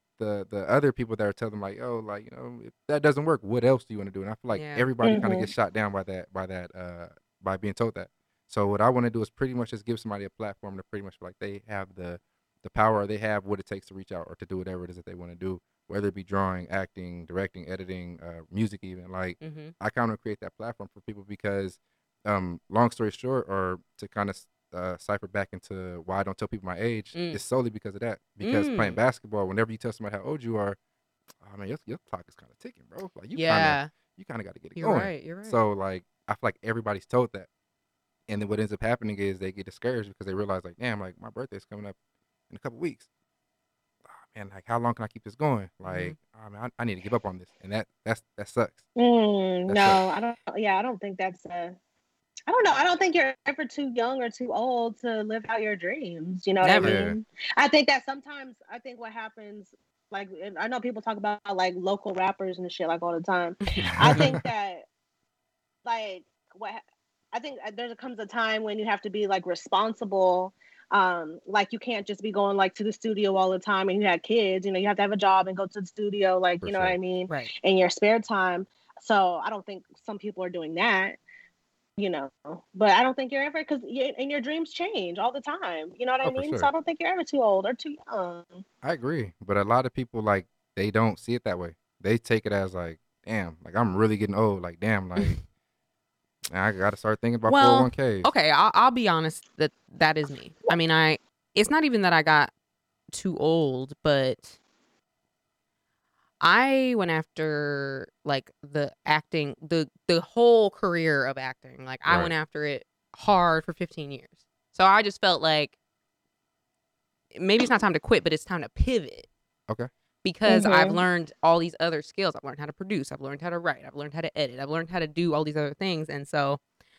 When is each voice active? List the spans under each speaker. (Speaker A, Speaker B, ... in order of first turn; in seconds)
Speaker A: 0.2-30.8, 31.4-37.5, 38.3-42.0, 42.5-43.1, 44.0-48.8, 49.7-50.0, 56.8-57.2, 63.8-64.4, 76.6-77.0, 86.2-86.7, 88.8-95.4, 96.5-98.3, 112.0-112.3
Speaker B: 4.5-4.9, 19.4-19.7, 27.1-27.4, 28.4-29.0, 33.3-33.9, 34.8-35.6, 45.8-46.1, 56.6-57.0, 63.7-64.4, 97.5-102.5, 103.1-104.6, 106.4-115.8, 117.3-119.3, 120.2-126.6
Speaker C: 5.0-5.5, 49.0-51.8, 52.5-64.8, 65.8-66.8, 67.3-81.2, 82.0-88.6, 120.5-121.0